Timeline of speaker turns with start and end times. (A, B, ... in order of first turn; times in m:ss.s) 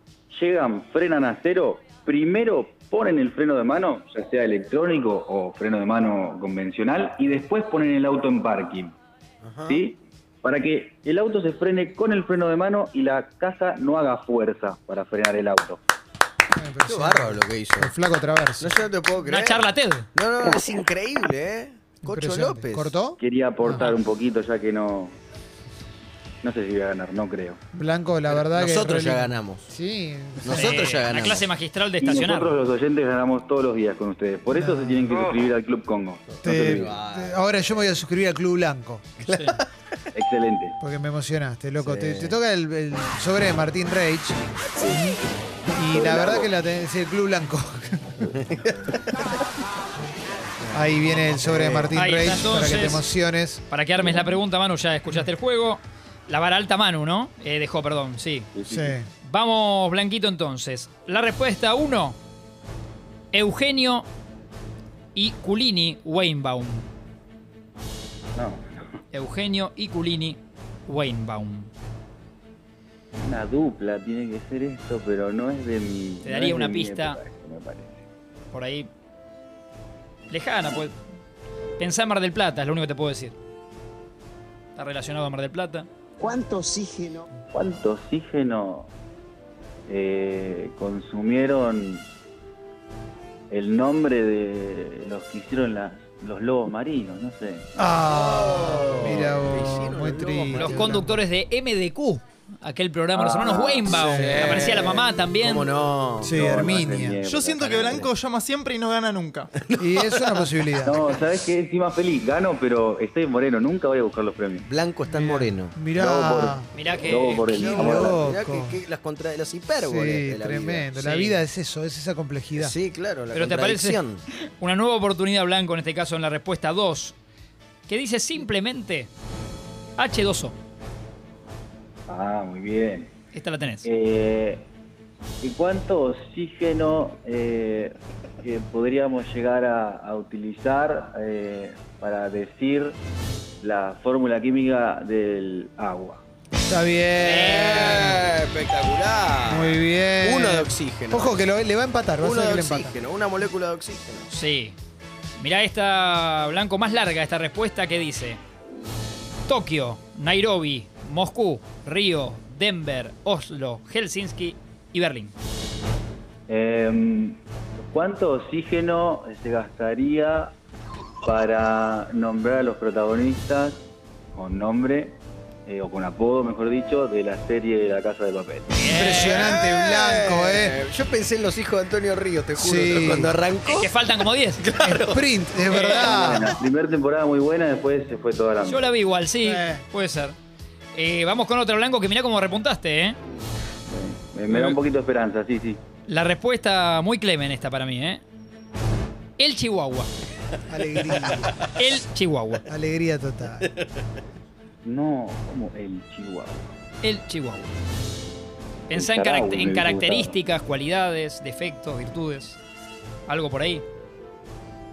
0:00.3-0:08.9 A
0:09.4-0:09.8 B
0:09.7-0:15.8 A
0:16.5-0:18.7 C
0:16.9-0:17.9 B
0:18.6-0:22.9 B
0:19.2-0:20.1 D
0:22.0-0:23.8 C
0:23.2-0:25.2 A
0:26.4-0:27.6 A
0:27.7-0:30.8 C
0:28.3-0:29.6 B
0:30.4-0:31.5 B
0:30.5-0:32.5 D
0:32.0-0:36.9 A
0:34.5-0:35.2 C
0:36.4-0:37.3 B
0:36.4-0:39.2 C
0:39.2-0:40.0 B
0:39.2-0:39.6 D
0:40.1-0:40.8 A
0:40.8-0:45.2 C
0:41.8-0:42.4 B
0:45.7-0:48.3 C
0:48.3-0:48.9 B
0:50.7-0:53.6 C
0:51.4-0:51.9 B
0:51.9-0:53.0 D
0:53.7-0:58.5 D
0:58.5-0:59.0 A
0:58.7-0:59.0 C
0:59.2-1:02.2 D
1:03.3-1:04.1 D
1:05.1-1:06.9 D
1:08.4-1:09.0 A
1:09.1-1:11.7 D
1:13.1-1:18.0 A
1:16.2-1:17.2 D
1:18.5-1:18.9 D
1:20.3-1:21.0 D
1:21.8-1:23.3 D
1:24.8-1:25.9 D
1:27.5-1:28.9 A
1:29.9-1:32.0 A
1:33.5-1:37.7 A
1:37.8-1:41.2 C
1:38.0-1:41.0 B
1:40.5-1:45.7 D
1:43.1-1:46.4 B
1:43.9-1:44.6 C
1:46.2-1:47.2 C
1:46.2-1:48.1 A
1:47.2-1:49.5 E
1:49.6-1:50.5 B
1:49.8-1:51.0 C
1:50.8-1:54.7 A
1:54.7-1:55.7 B
1:55.1-1:56.7 C
1:56.0-1:58.2 A
1:56.7-1:57.6 D
1:57.5-1:58.8 C
1:57.6-2:00.9 B
1:59.8-2:02.7 C
2:00.9-2:01.4 D
2:02.6-2:04.2 B
2:03.3-2:07.1 D
2:07.9-2:09.1 D
2:10.0-2:10.5 D
2:12.1-2:13.1 A
2:13.3-2:13.9 D
2:13.8-2:14.6 A
2:15.4-2:23.0 A
2:23.6-2:26.2 A
2:26.6-2:28.3 C
2:27.2-2:28.1 D
2:27.3-2:31.4 B
2:29.4-2:33.0 C
2:32.2-2:34.3 B
2:34.3-2:34.8 D
2:35.4-2:38.4 D
2:39.5-2:45.3 D
2:46.5-2:47.4 A
2:47.9-2:50.5 A
2:51.2-2:53.8 A
2:54.3-2:58.7 A
2:58.8-2:59.4 D
2:58.8-3:00.8 C
2:59.1-3:04.0 B
3:02.5-3:03.4 C
3:03.6-3:04.6 D
3:04.6-3:05.3 B
3:04.8-3:06.6 C
3:05.7-3:06.1 D
3:05.8-3:08.9 A
3:08.6-3:10.4 D
3:09.4-3:09.8 C
3:10.9-3:13.2 D
3:13.9-3:15.8 A
3:14.5-3:14.8 D
3:16.1-3:18.2 D
3:19.4-3:20.1 D
3:20.7-3:21.6 C
3:21.8-3:22.6 D
3:22.7-3:23.7 C
3:24.8-3:26.7 A
3:27.0-3:27.7 D
3:28.9-3:32.6 D
3:28.9-3:30.4 A
3:33.3-3:33.8 D